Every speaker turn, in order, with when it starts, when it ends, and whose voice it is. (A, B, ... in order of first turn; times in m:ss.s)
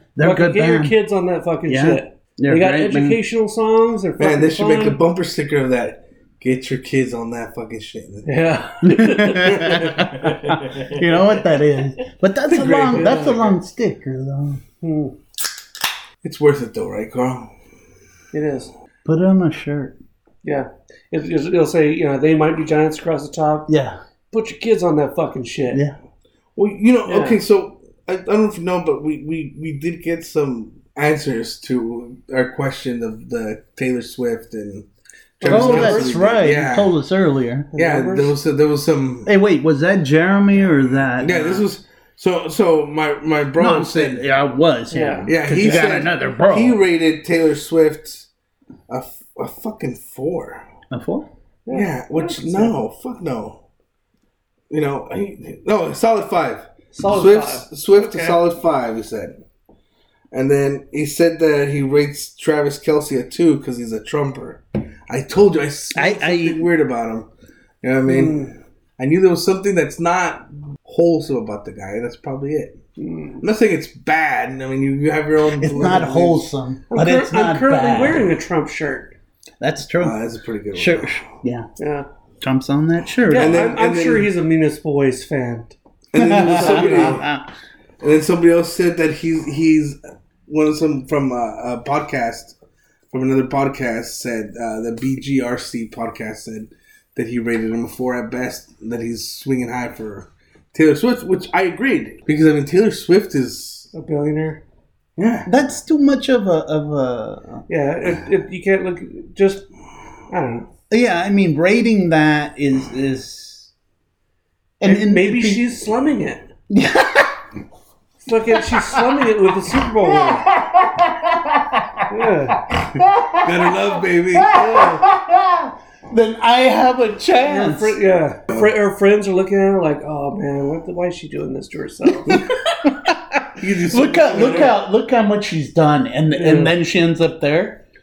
0:00.2-0:01.0 A
0:00.2-0:05.0 B
0:01.7-0:03.2 A
0:04.2-0:08.4 C
0:08.2-0:09.8 B
0:08.8-0:14.6 A
0:09.5-0:11.0 C
0:12.5-0:13.6 C
0:12.9-0:13.4 B
0:14.8-0:15.1 B
0:16.2-0:17.5 C
0:18.3-0:18.7 B
0:19.0-0:19.9 A
0:20.4-0:23.7 B
0:23.7-0:24.0 A
0:24.3-0:25.8 B
0:25.7-0:26.0 A
0:26.6-0:34.8 C
0:27.0-0:27.4 B
0:35.4-0:37.0 C
0:35.4-0:36.2 B
0:35.5-0:37.7 A
0:37.7-0:38.4 B
0:37.8-0:39.3 C
0:39.2-0:41.6 A
0:41.2-0:44.2 C
0:43.6-0:46.8 A
0:44.9-0:45.3 B
0:45.3-0:48.3 C
0:48.9-0:50.6 C
0:50.9-0:51.3 A
0:51.6-0:52.7 B
0:51.7-0:53.6 C
0:54.7-0:59.4 C
0:56.9-0:58.4 B
1:00.3-1:07.3 C
1:05.9-1:06.6 A
1:07.8-1:12.8 C
1:08.1-1:08.5 B
1:13.0-1:13.4 B
1:13.4-1:16.4 C
1:15.6-1:18.3 A
1:16.9-1:19.1 B
1:19.6-1:20.1 A
1:20.0-1:21.2 C
1:20.7-1:21.7 A
1:21.8-1:22.1 B
1:22.4-1:23.7 A
1:23.3-1:25.8 B
1:23.3-1:24.3 C
1:26.1-1:27.3 C
1:26.2-1:27.5 A
1:26.4-1:27.2 B
1:28.0-1:32.5 C
1:33.1-1:43.9 C
1:43.9-1:44.6 B
1:45.2-1:45.5 C
1:45.4-1:47.6 A
1:47.7-1:49.6 B
1:50.3-1:50.7 B
1:50.9-1:53.7 A
1:54.8-1:55.6 A
1:54.8-1:56.5 B
1:56.7-1:57.4 A
1:58.2-2:00.4 B
1:58.5-1:59.2 A
1:59.8-2:08.0 A
2:02.1-2:02.6 B
2:03.4-2:04.6 C
2:04.5-2:05.0 B
2:07.4-2:12.4 B
2:12.3-2:17.8 A
2:13.6-2:14.8 C
2:14.2-2:14.7 B
2:16.3-2:16.7 B